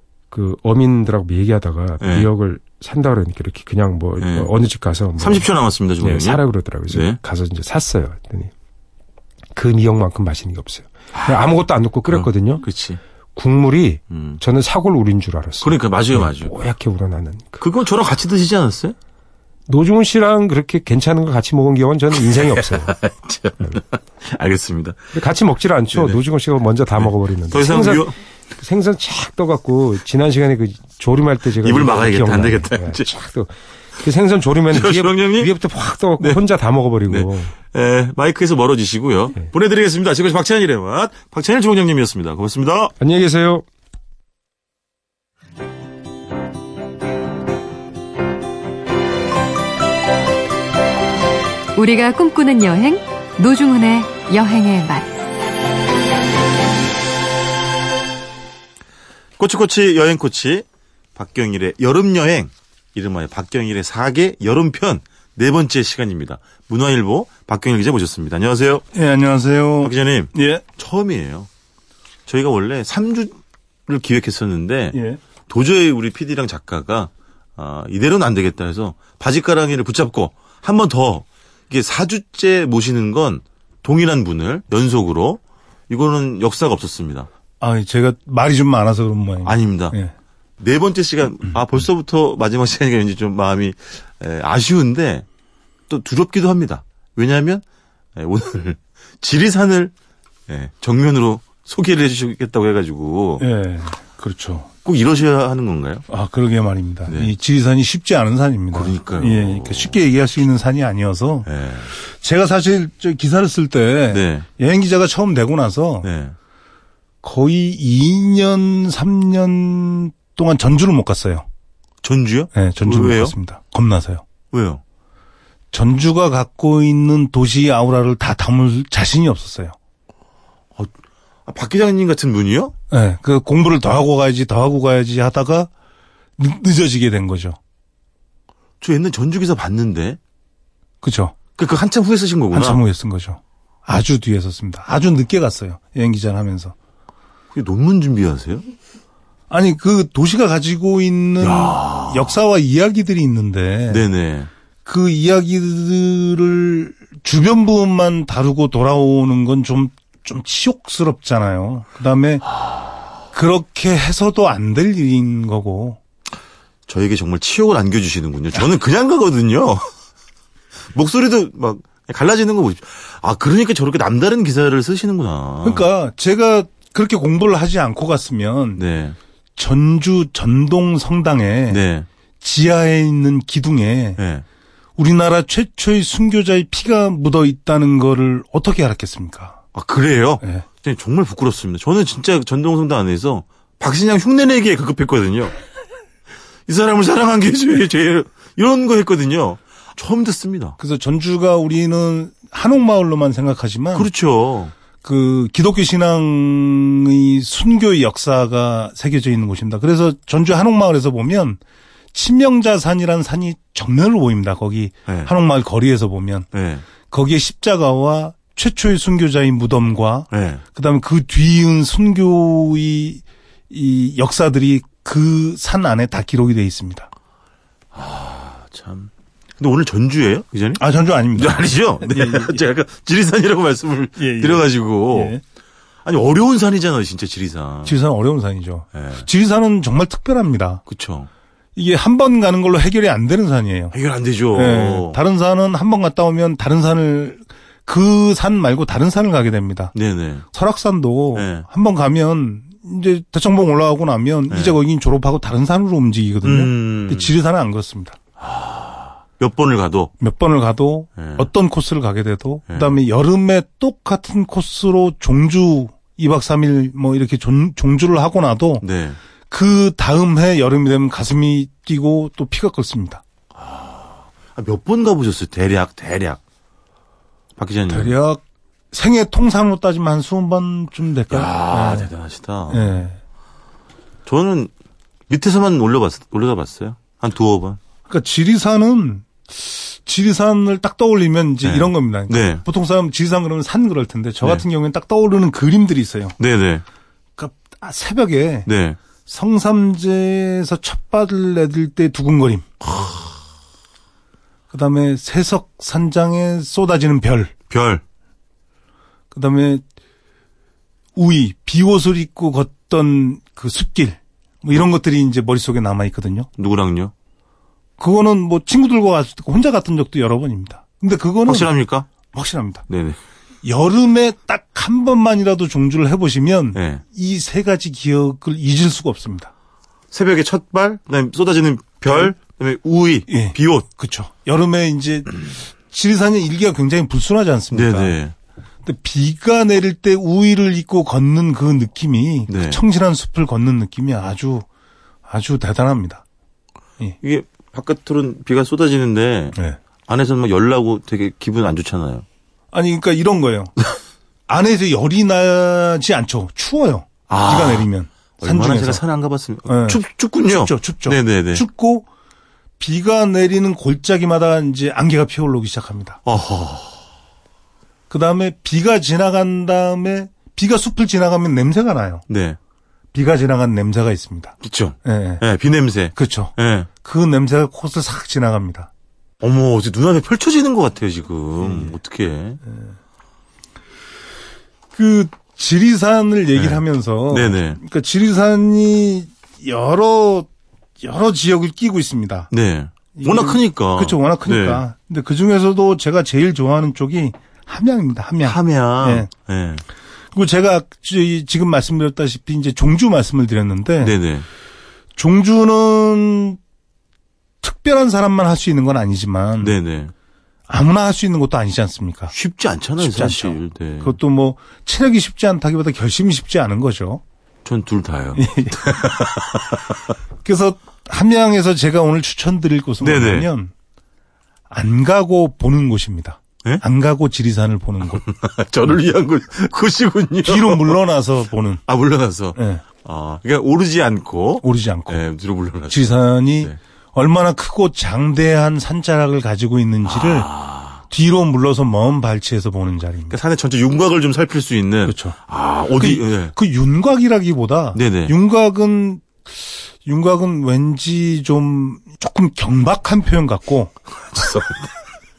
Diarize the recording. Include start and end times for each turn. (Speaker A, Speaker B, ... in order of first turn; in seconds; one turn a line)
Speaker A: 0.3-5.5
Speaker B: 2.0-2.3
Speaker B: 4.2-4.5
Speaker B: 5.2-7.2
Speaker A: 6.0-8.5
Speaker A: 9.6-12.7
Speaker B: 11.1-11.5
Speaker B: 12.1-13.0
Speaker A: 13.3-17.6
Speaker B: 14.1-14.4
Speaker B: 15.6-16.5
Speaker B: 17.6-18.9
Speaker A: 19.7-23.0
Speaker B: 22.1-25.1
Speaker A: 25.1-37.5
Speaker B: 25.9-26.2
Speaker B: 26.9-28.1
Speaker B: 31.6-33.1
Speaker B: 34.7-35.5
Speaker B: 37.1-42.9
Speaker A: 43.0-43.6
Speaker C: 51.7-55.2
Speaker B: 59.4-60.6
Speaker B: 61.1-68.8
Speaker D: 68.9-70.6
Speaker B: 69.8-71.5
Speaker B: 72.3-87.3
Speaker D: 74.9-75.2
Speaker D: 87.6-90.1
Speaker B: 89.4-90.0
Speaker B: 90.6-95.2
Speaker B: 95.9-97.6
Speaker B: 98.2-99.9
Speaker B: 100.5-103.4
Speaker D: 103.4-104.7
Speaker B: 104.8-106.0
Speaker D: 106.1-111.5
Speaker B: 107.1-107.3
Speaker B: 108.7-110.0
Speaker B: 111.4-111.9
Speaker D: 112.2-116.1
Speaker B: 114.1-114.5
Speaker B: 116.0-116.3
Speaker D: 117.2-121.4
Speaker B: 122.0-123.3
Speaker D: 122.5-124.2
Speaker B: 124.5-124.8
Speaker D: 125.7-129.7
Speaker B: 131.4-132.7
Speaker D: 132.9-135.7
Speaker D: 136.4-137.6
Speaker B: 138.8-140.2
Speaker D: 141.0-141.3
Speaker B: 141.6-142.8
Speaker D: 142.5-146.7
Speaker B: 147.5-148.7
Speaker D: 149.5-154.0
Speaker B: 151.4-152.4
Speaker B: 153.9-154.5
Speaker D: 154.8-162.5
Speaker D: 163.3-166.0
Speaker B: 166.9-169.9
Speaker B: 170.9-175.8
Speaker D: 175.6-178.8
Speaker B: 178.8-179.2
Speaker D: 179.6-181.8
Speaker B: 181.7-182.1
Speaker D: 182.4-184.2
Speaker B: 184.2-184.4
Speaker D: 185.0-189.6
Speaker B: 189.7-195.6
Speaker B: 196.7-200.8
Speaker D: 200.8-204.1
Speaker B: 203.9-204.7
Speaker D: 205.0-211.6
Speaker D: 212.1-216.5
Speaker B: 216.5-216.8
Speaker D: 217.0-227.1
Speaker B: 220.3-220.6
Speaker B: 227.9-230.8
Speaker D: 230.8-232.6
Speaker B: 231.3-235.4
Speaker D: 234.2-235.4
Speaker B: 236.0-237.9
Speaker D: 237.8-240.8
Speaker B: 238.9-239.3
Speaker B: 240.8-241.3
Speaker D: 241.8-243.9
Speaker B: 243.9-245.2
Speaker D: 244.5-249.9
Speaker B: 249.9-250.4
Speaker D: 250.5-258.2
Speaker B: 251.3-251.7
Speaker B: 254.5-254.8
Speaker B: 256.4-257.3
Speaker B: 258.4-260.1
Speaker D: 260.2-268.8
Speaker B: 261.2-261.5
Speaker B: 262.7-263.0
Speaker B: 268.8-269.2
Speaker D: 269.5-273.2
Speaker B: 273.5-276.4
Speaker B: 277.6-278.1
Speaker D: 277.9-278.4
Speaker D: 278.9-282.1
Speaker B: 281.3-283.0
Speaker D: 282.7-283.2
Speaker B: 284.2-284.7
Speaker B: 285.3-287.8
Speaker D: 288.1-296.4
Speaker B: 291.6-292.6
Speaker B: 296.4-296.8
Speaker D: 297.4-298.7
Speaker B: 298.6-299.0
Speaker D: 299.2-302.7
Speaker B: 302.9-303.3
Speaker D: 304.7-307.5
Speaker B: 307.7-308.0
Speaker D: 309.3-309.8
Speaker D: 311.1-316.5
Speaker B: 316.6-317.1
Speaker D: 318.0-322.8
Speaker B: 321.4-322.1
Speaker B: 322.9-323.2
Speaker D: 323.6-329.5
Speaker B: 326.7-327.0
Speaker B: 330.1-333.9
Speaker D: 332.1-332.4
Speaker D: 333.3-338.2
Speaker B: 337.7-338.3
Speaker D: 338.8-344.6
Speaker B: 342.5-342.8
Speaker D: 345.3-346.2
Speaker B: 347.2-352.2
Speaker D: 352.7-353.7
Speaker D: 354.5-359.0
Speaker B: 357.3-357.9
Speaker B: 358.4-361.6
Speaker D: 359.6-362.1
Speaker D: 362.8-366.2
Speaker B: 366.2-367.0
Speaker D: 368.1-372.2
Speaker B: 372.3-372.6
Speaker D: 373.1-375.4
Speaker B: 374.6-376.9
Speaker D: 376.1-378.9
Speaker B: 379.4-382.6
Speaker D: 381.6-381.9
Speaker D: 382.6-382.9
Speaker D: 384.9-390.5
Speaker B: 386.5-387.8
Speaker D: 391.0-392.5
Speaker B: 392.5-394.8
Speaker D: 393.1-399.3
Speaker B: 398.4-399.8
Speaker D: 400.3-404.1
Speaker B: 404.0-404.4
Speaker D: 405.2-406.6
Speaker D: 407.6-409.8
Speaker B: 409.6-410.1
Speaker D: 410.7-412.3
Speaker B: 412.3-414.1
Speaker D: 413.0-417.2
Speaker B: 417.6-420.0
Speaker D: 418.4-418.8
Speaker D: 420.4-423.7
Speaker B: 423.0-423.5
Speaker D: 424.7-428.2
Speaker B: 428.1-431.0
Speaker D: 430.4-431.8
Speaker B: 431.9-436.8
Speaker D: 432.5-432.8
Speaker D: 434.6-435.2
Speaker D: 435.9-440.5
Speaker B: 440.0-441.0
Speaker D: 441.1-443.4
Speaker B: 443.3-446.5
Speaker D: 445.1-445.4
Speaker D: 446.0-453.9
Speaker B: 447.9-448.3
Speaker B: 454.2-454.9